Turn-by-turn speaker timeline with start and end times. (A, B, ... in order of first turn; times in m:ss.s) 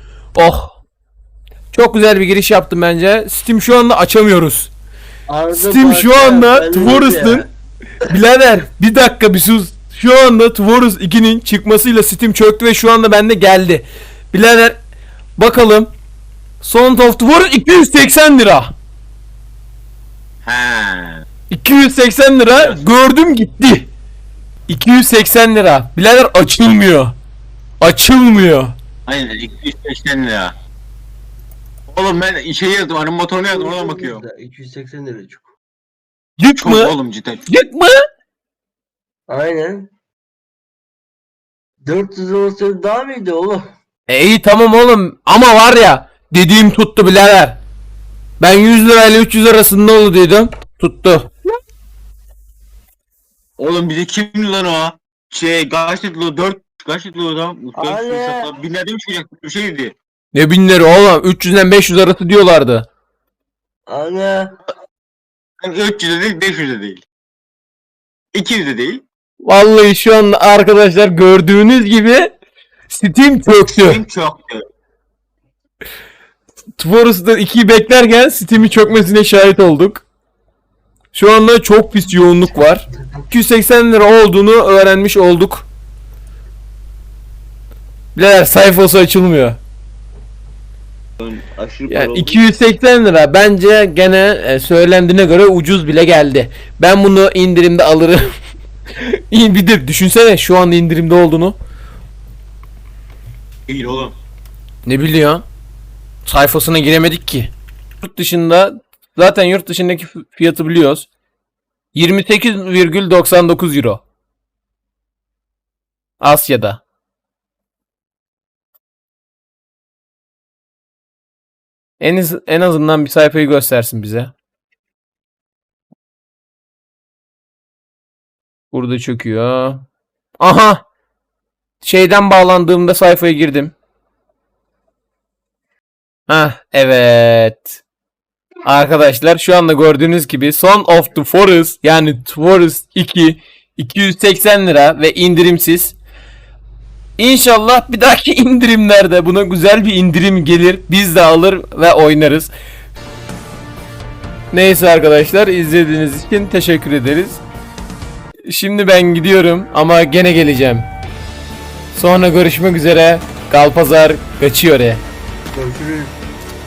0:00.3-0:00.8 A
0:01.7-0:04.7 A
0:05.3-0:07.5 B
0:05.5-0:07.4 A
0:08.0-0:14.8 A
0:15.4-0:15.9 A
0:16.6-0:18.7 A
0:20.4-0:21.2 C
0:21.5-0:23.9 A
0:22.5-0:22.8 C
0:24.7-0:27.1 A
0:27.8-0:28.7 A
0:29.1-0:30.5 C
0:31.9-0:34.2 C
0:33.5-0:35.5 B
0:36.4-0:36.9 A
0:36.6-0:37.5 C
0:37.5-0:38.0 A
0:39.3-0:39.9 B
0:41.8-0:43.7 B
0:44.1-0:47.6 A
0:48.4-0:51.3 A
0:53.6-0:59.9 C
0:57.8-0:58.5 B
1:00.3-1:02.9 A
1:03.9-1:04.6 B
1:05.6-1:07.0 C
1:08.3-1:09.0 C
1:09.4-1:12.3 A
1:12.9-1:14.0 A
1:13.8-1:14.6 C
1:16.8-1:20.0 A
1:21.1-1:25.7 A
1:28.1-1:29.6 A
1:31.2-1:32.4 C
1:31.9-1:38.3 A
1:39.0-1:41.6 A
1:43.7-1:44.2 C
1:44.9-1:45.4 A
1:46.2-1:51.1 A
1:51.9-1:54.0 A
1:56.2-1:56.8 A
2:02.0-2:04.3 A
2:08.7-2:09.8 A
2:10.4-2:10.8 A
2:11.8-2:13.7 A
2:16.3-2:17.8 A
2:18.7-2:26.0 A
2:27.2-2:32.5 A
2:34.5-2:37.4 A
2:38.5-2:40.9 A
2:41.9-2:45.0 A
2:45.5-2:46.1 B